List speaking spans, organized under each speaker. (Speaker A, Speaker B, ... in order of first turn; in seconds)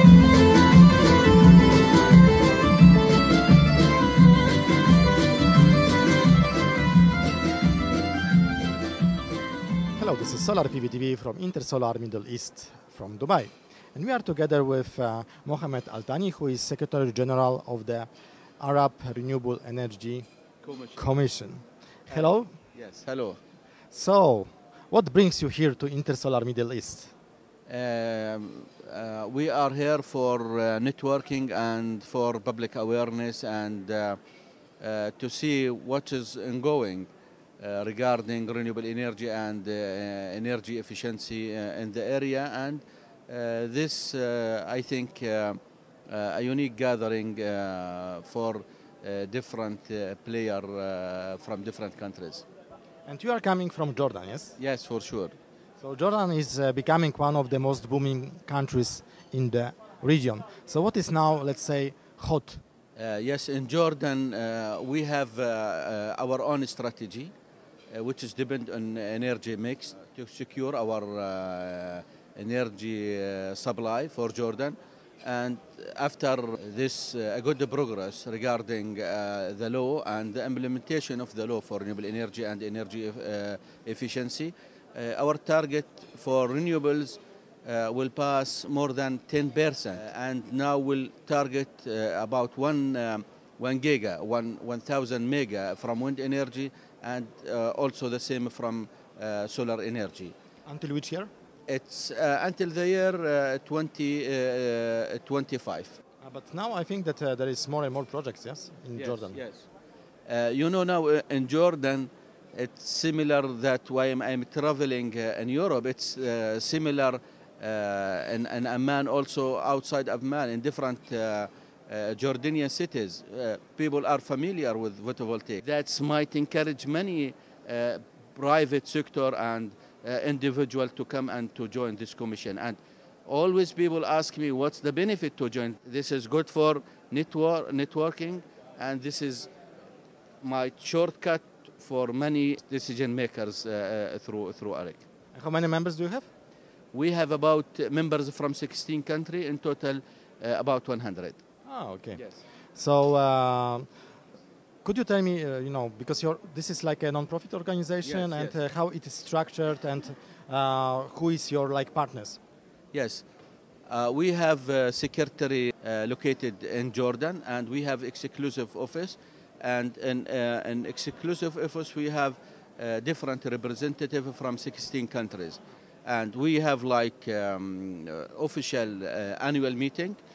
Speaker A: 10.0-18.1, 18.6-20.2, 20.9-22.5, 23.9-27.1, 53.0-54.6, 55.8-62.6, 100.7-101.3, 106.2-109.4, 145.3-146.3, 151.7-154.0, 154.8-162.4
Speaker B: 20.6-21.1, 22.1-23.4, 27.7-34.2, 34.8-52.5, 54.6-55.3, 63.0-67.3, 67.9-100.3, 101.7-106.0, 109.0-109.7, 110.2-139.5, 140.4-145.0, 146.9-151.4, 152.1-152.4, 158.0-158.6, 162.9-163.3, 163.9-180.2